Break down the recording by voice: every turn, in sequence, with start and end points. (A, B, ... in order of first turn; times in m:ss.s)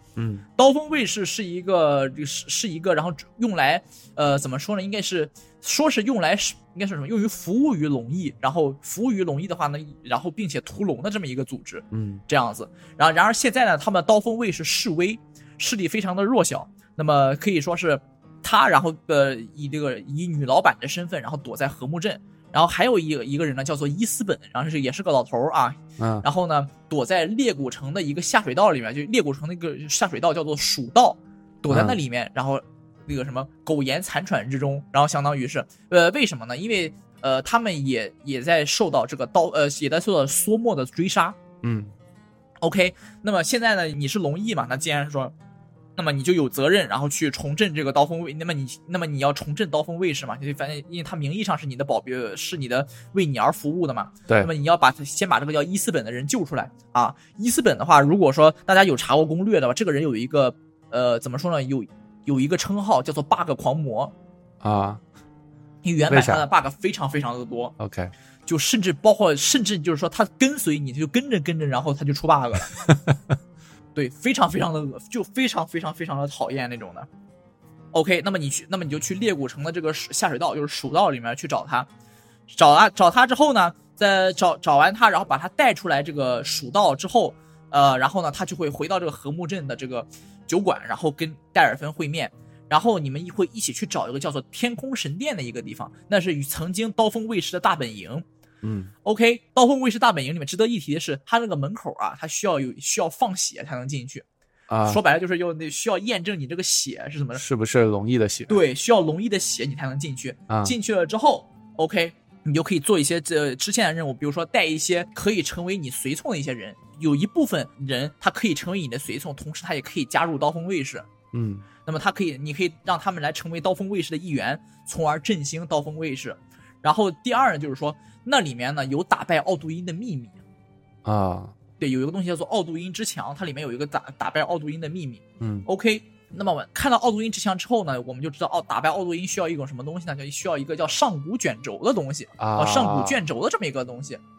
0:00.2-0:00.4 A
0:00.6-0:41.4 B
0:11.9-0:12.2 A
0:26.0-0:26.3 A
0:31.7-0:32.0 A
0:41.6-0:41.9 A
0:42.6-0:45.3 B
0:46.0-1:04.1 B
1:04.6-1:05.0 A
1:05.8-1:07.8 B
1:06.1-1:06.4 A
1:07.8-1:08.1 A
1:08.5-1:12.8 B
1:12.8-1:13.2 A
1:14.0-1:17.1 B
1:17.9-1:21.9 B
1:22.5-1:38.2 B
1:38.6-1:38.9 A
1:39.0-1:44.2 B
1:44.7-1:45.0 A
1:44.8-1:47.4 B
1:47.4-1:48.6 A
1:48.5-2:01.1 B
1:50.5-1:50.8 A
2:01.3-2:01.6 A
2:01.9-2:10.4 B
2:11.0-2:11.5 A
2:11.8-2:24.2 B
2:15.4-2:15.7 A
2:22.4-2:23.2 A